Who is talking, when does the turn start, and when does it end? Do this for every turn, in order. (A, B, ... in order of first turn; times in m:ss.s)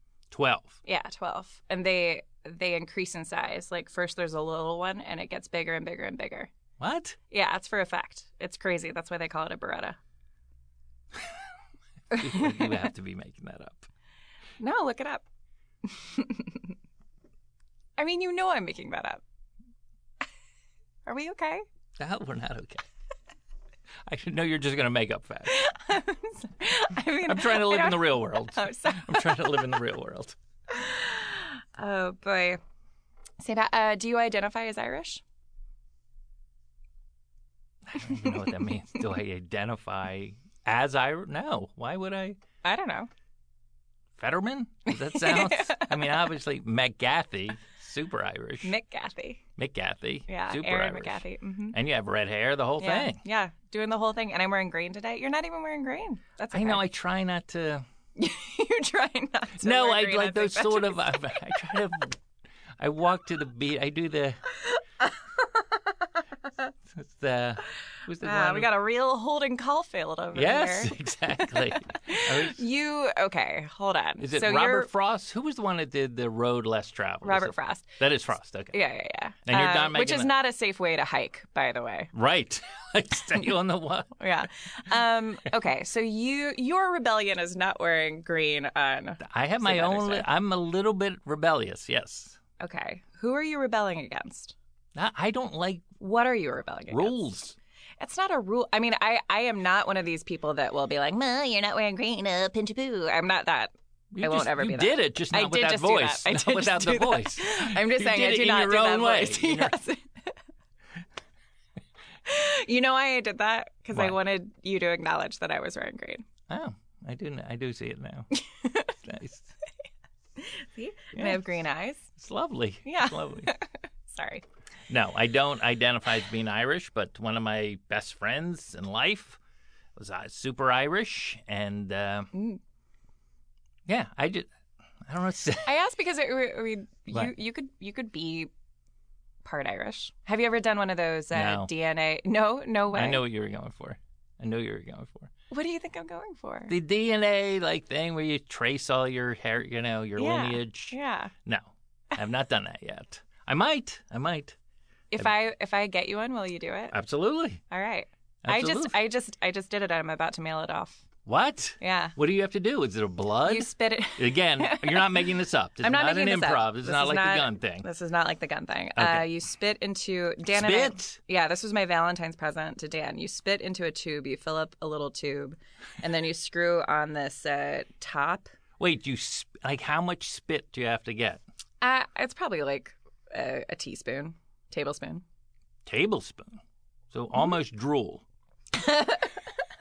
0:00.3-0:00.8 A
0:00.8-0:06.5 B
0:06.8-0:07.2 A
0:07.3-0:10.0 B
0:12.1-0:13.9 A
0:12.1-0:12.9 B
0:14.6-0:15.2 B
0:15.8-0:16.7 B
0:18.0-0:19.2 B
0:21.0-0:21.6 B
0:22.0-0:22.8 A
0:24.0-0:25.6 A
0:25.5-0:29.7 B
0:27.2-0:30.3 A
0:30.7-0:32.6 B
0:33.4-0:35.2 B
0:37.8-0:42.4 A
0:42.6-0:43.1 B
0:44.2-0:48.7 A
0:44.9-0:46.2 B
0:48.6-0:49.4 B
0:49.6-0:53.2 A
0:50.3-0:51.8 B
0:52.8-0:56.9 B
0:56.5-0:57.8 A
0:58.2-1:01.4 B
0:59.6-1:02.2 A
1:02.8-1:04.4 A
1:06.9-1:08.7 A
1:08.2-1:14.9 B
1:10.3-1:12.6 A
1:14.2-1:18.8 A
1:17.2-1:18.0 B
1:18.7-1:22.1 B
1:19.5-1:20.4 A
1:22.1-1:24.2 A
1:24.2-1:30.3 B
1:29.2-1:32.4 A
1:32.6-1:34.5 B
1:34.9-1:35.9 A
1:36.0-1:37.3 B
1:36.9-1:37.6 A
1:38.0-1:50.3 B
1:44.1-1:49.8 A
1:52.2-1:56.2 B
1:56.5-1:58.3 A
1:58.3-1:58.9 B
1:59.0-1:59.5 A
2:00.4-2:02.1 B
2:01.1-2:01.4 A
2:02.2-2:03.5 A
2:02.8-2:04.4 B
2:04.9-2:09.4 A
2:10.0-2:12.3 A
2:12.3-2:12.6 B
2:13.8-2:14.5 A
2:15.0-2:15.7 A
2:15.6-2:18.5 B
2:19.4-2:23.2 B
2:21.3-2:21.7 A
2:22.9-2:25.3 A
2:25.5-2:26.7 B
2:26.7-2:34.6 A
2:30.2-2:31.3 B
2:35.1-2:37.0 B
2:36.9-2:37.6 A
2:37.7-2:41.0 B
2:38.4-2:39.0 A
2:41.2-2:47.9 A
2:41.8-2:42.2 B
2:43.4-2:45.3 B
2:45.8-2:58.5 B
2:49.0-2:49.3 A
2:50.5-2:51.2 A
2:58.8-3:01.4 A
3:01.8-3:05.2 B
3:05.8-3:08.2 A
3:08.7-3:09.3 B